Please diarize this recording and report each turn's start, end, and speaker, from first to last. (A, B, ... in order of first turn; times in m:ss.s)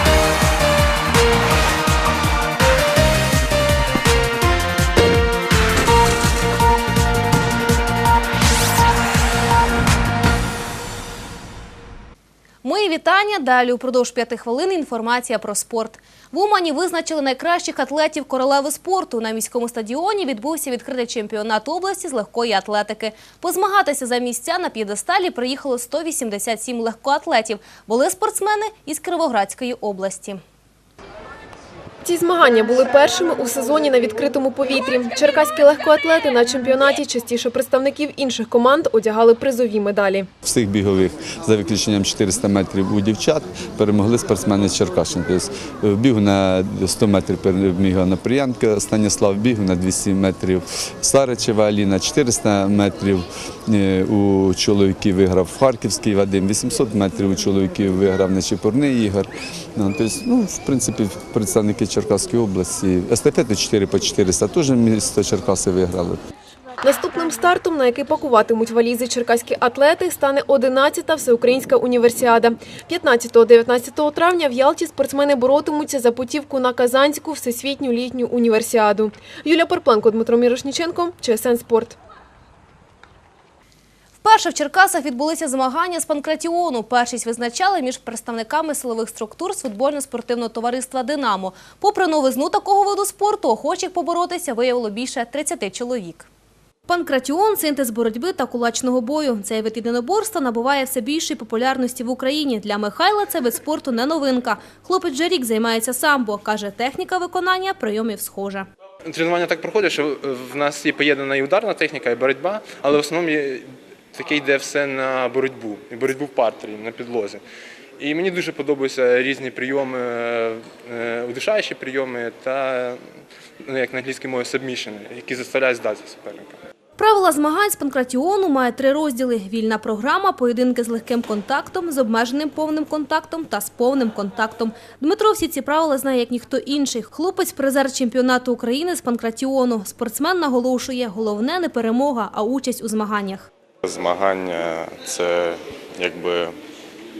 0:12.6-0:30.4 A
0:32.0-0:40.3 B
0:40.4-1:06.2 C
1:06.8-1:22.0 B
1:24.2-1:36.3 A
1:36.9-1:48.7 A
1:49.1-1:53.6 D
1:54.2-1:57.4 D
1:58.0-2:02.9 D
2:03.7-2:06.5 D
2:07.0-2:23.5 A
2:23.8-2:26.5 E